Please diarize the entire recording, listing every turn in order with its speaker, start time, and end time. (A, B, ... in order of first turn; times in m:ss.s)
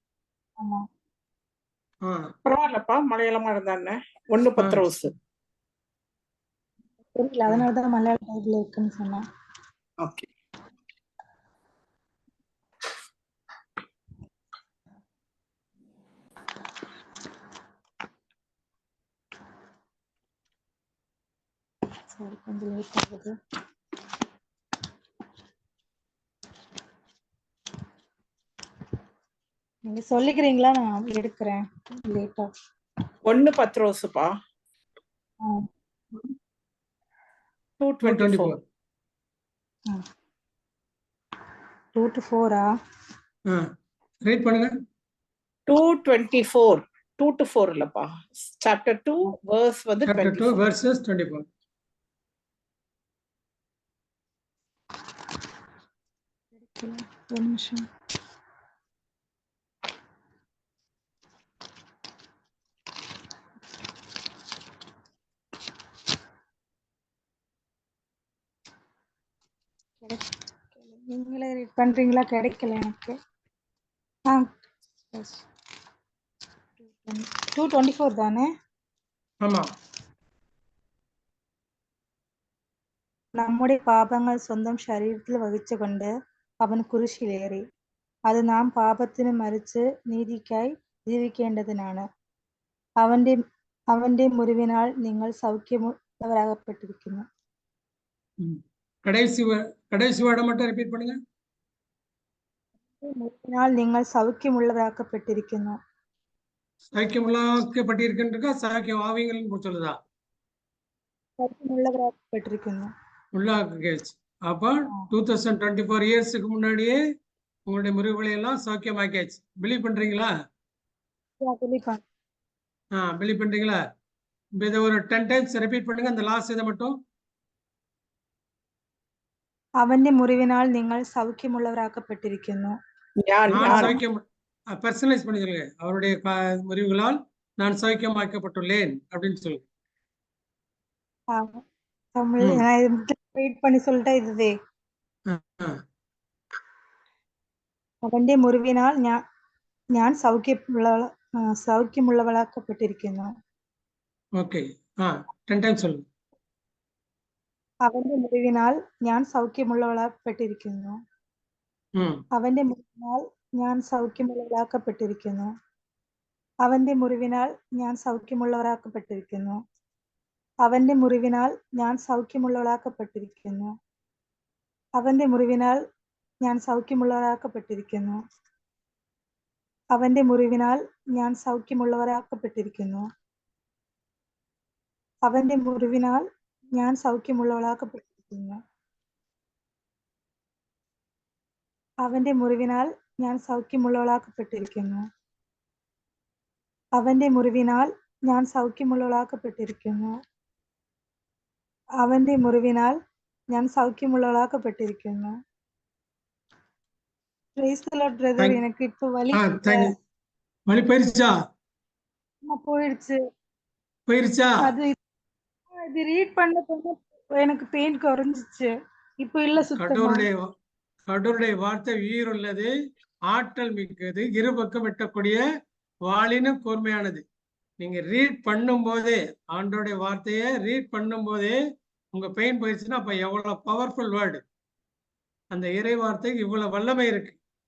0:02.0-0:02.3 A
0:02.4-0:05.1 B
0:04.6-0:04.8 A
0:07.2-0:09.2 C
0:10.0-0:10.3 B
0:22.1-0:23.3 C
0:29.9-0:32.5 C
0:33.3-0:34.3 B
0:37.8-0:38.6 B
0:38.0-0:38.6 A
0:42.0-0:42.7 C
0:44.2-0:44.7 A
0:45.7-0:50.6 B
0:50.1-0:51.4 A
0:56.6-0:57.8 C
1:10.0-1:13.2 C
1:14.3-1:14.6 C
1:15.1-1:15.4 C
1:16.8-1:18.5 C
1:19.4-1:19.7 A
1:23.4-1:26.1 C
1:26.6-1:27.6 C
1:28.3-1:32.0 C
1:33.0-1:33.4 C
1:33.9-1:37.2 C
1:38.4-1:41.2 A
1:43.0-1:45.8 C
1:46.9-1:50.0 A
1:51.4-1:52.9 C
1:53.3-1:57.0 A
1:57.7-2:00.3 A
2:01.4-2:02.0 C
2:03.0-2:03.8 A
2:04.6-2:06.9 A
2:09.8-2:12.8 C
2:13.2-2:14.0 B
2:13.5-2:14.2 A
2:13.6-2:14.0 C
2:14.7-2:19.6 A
2:21.3-2:21.6 C
2:22.2-2:24.5 C
2:25.3-2:25.7 A
2:28.1-2:29.2 C
2:30.0-2:33.3 C
2:34.4-2:36.0 A
2:37.9-2:41.0 C
2:42.0-2:42.2 A
2:42.3-2:45.5 C
2:46.6-2:49.6 C
2:50.6-2:53.7 C
2:55.0-2:55.8 C
2:56.4-2:58.2 C
3:00.0-3:03.0 C
3:05.3-3:06.2 C
3:06.8-3:08.6 C
3:12.0-3:15.0 C
3:17.0-3:20.1 C
3:22.0-3:23.0 C
3:23.5-3:25.3 C
3:27.6-3:29.9 C
3:29.3-3:29.9 A
3:30.7-3:31.3 A
3:32.5-3:33.2 C
3:34.1-3:34.5 A
3:34.6-3:35.0 C
3:35.8-3:38.7 C
3:39.2-3:40.3 C
3:39.8-3:40.4 A
3:41.1-3:42.7 A
3:43.3-3:45.4 A
3:46.1-3:47.2 A
3:47.8-3:51.6 A
3:52.1-3:54.4 A
3:55.5-3:57.4 A